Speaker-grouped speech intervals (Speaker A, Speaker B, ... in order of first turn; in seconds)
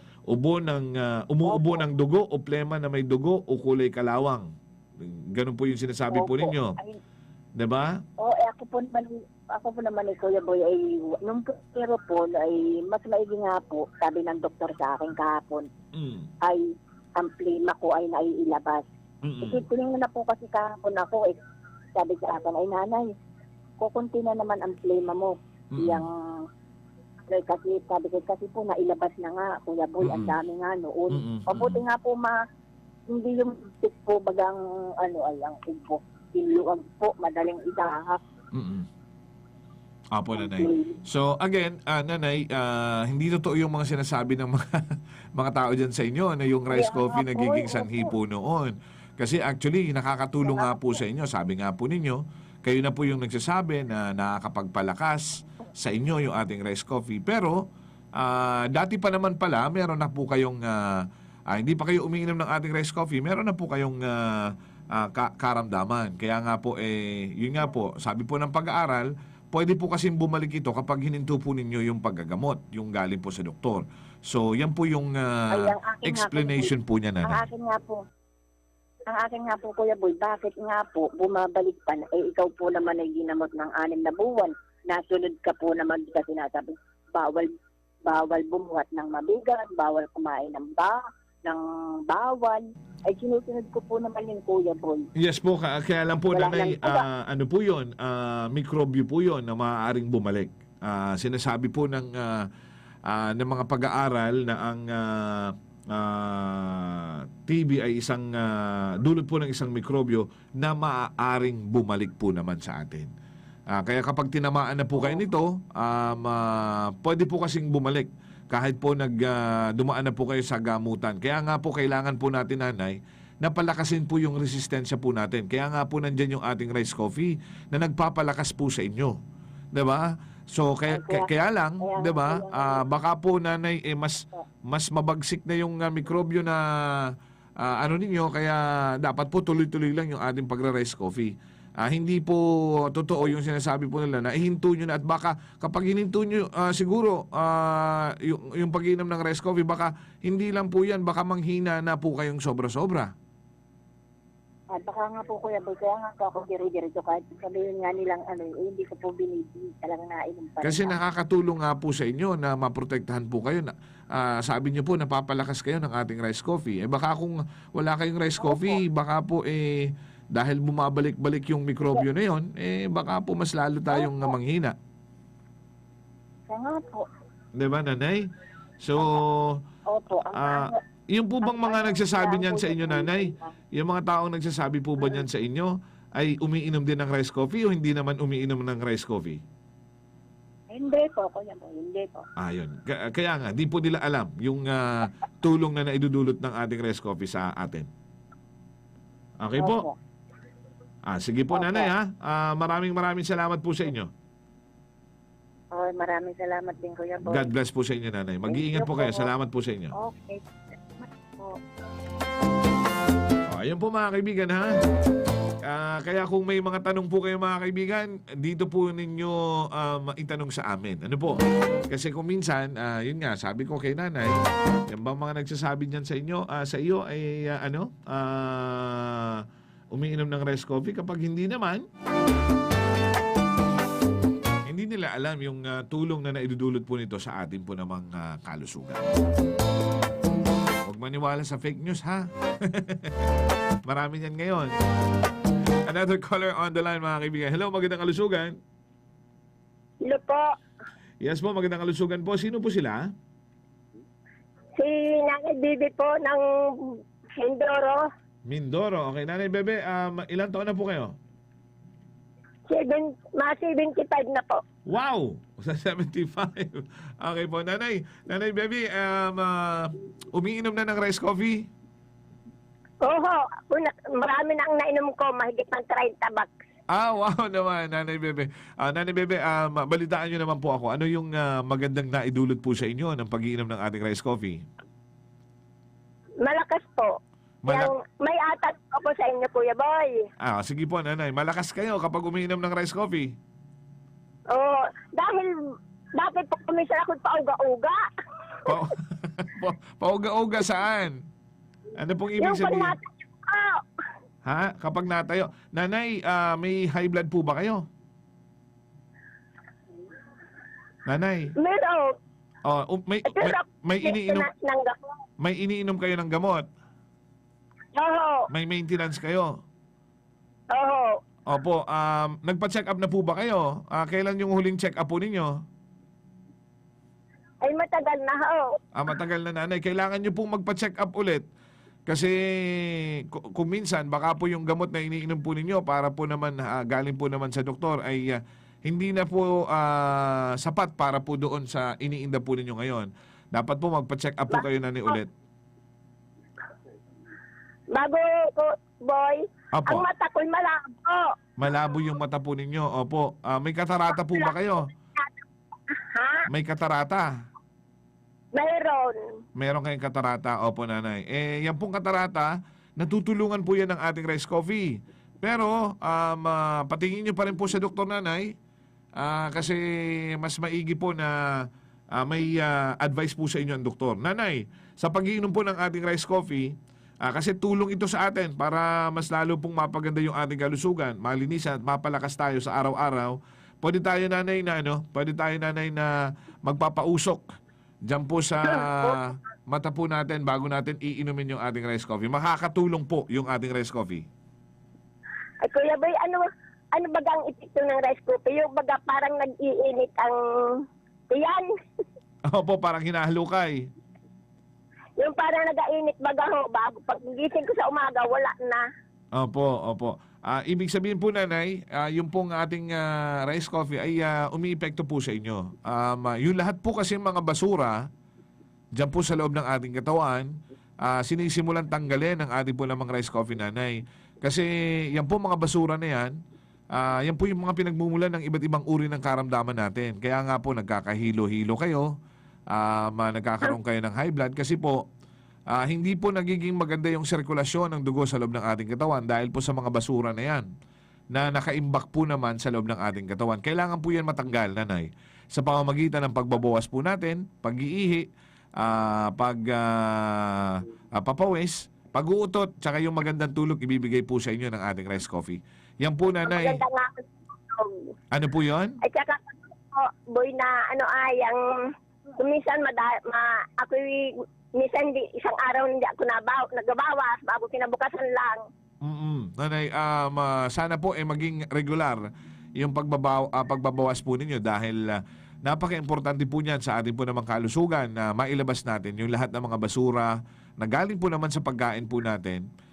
Speaker A: 0.3-4.5, 5.0-6.8, 7.6-8.0, 15.9-16.3, 19.2-19.6, 25.7-26.0, 30.0-30.4, 31.1-31.8, 38.5-38.9, 40.1-44.8, 45.4-57.6, 58.1-77.4, 95.2-102.5, 103.1-113.1, 113.7-129.2, 129.7-153.1, 160.6-174.7, 177.6-178.3, 178.8-179.6, 180.3-189.4, 192.4-197.9, 199.4-199.8, 201.1-204.1, 207.2-209.9, 213.5-214.8, 215.6-224.3, 224.9-231.8, 234.7-239.0, 240.8-243.2, 243.8-244.7, 245.9-248.6, 251.2-253.0, 258.4-261.1, 264.9-271.7, 276.9-284.6, 287.6-287.9, 290.4-293.3, 298.7-301.2, 302.0-302.9, 304.4-307.8, 311.1-311.5, 312.6-314.5, 315.4-316.7, 318.5-319.6, 321.5-325.6, 328.9-331.4, 332.1-345.3, 349.7-350.0, 351.6-354.9, 356.5-357.3, 359.6-368.5, 369.2-371.4, 372.1-386.1, 386.6-387.4, 388.1-394.3, 402.5-403.9, 409.4-418.0, 418.9-420.5, 421.0-426.3, 426.9-432.1, 432.7-435.0, 435.7-440.7, 441.3-448.3, 448.8-456.8, 458.3-459.0, 469.0-472.2, 472.8-482.6
Speaker B: 1.4-1.8, 6.1-7.0, 8.2-15.7, 17.2-18.9, 19.4-21.4, 21.9-23.1, 23.8-26.1, 27.3-32.4, 33.1-38.2, 40.3-41.0, 46.7-48.1, 50.4-51.0, 75.5-76.7, 77.2-78.0, 79.1-87.5, 88.0-95.1, 96.3-97.0, 130.9-132.8, 154.7-160.9, 168.4-168.8, 173.9-174.3, 176.5-177.1, 179.9-180.8, 181.4-183.5, 190.7-192.2, 199.6-199.9, 201.5-201.9, 205.7-207.5, 208.5-209.3, 209.9-210.4, 211.0-211.6
Speaker C: 250.0-250.5, 254.8-258.1, 262.7-264.6, 273.0-276.5, 286.4-287.2, 287.7-290.3, 294.5-298.0, 302.4-303.8, 311.6-312.1, 313.2-315.1, 317.9-318.5, 320.7-321.2, 327.6-328.8, 344.5-345.2, 347.9-351.4, 356.1-356.4, 358.5-359.3, 395.6-401.7, 405.2-408.9, 456.3-458.0, 459.0-461.6, 462.4-468.6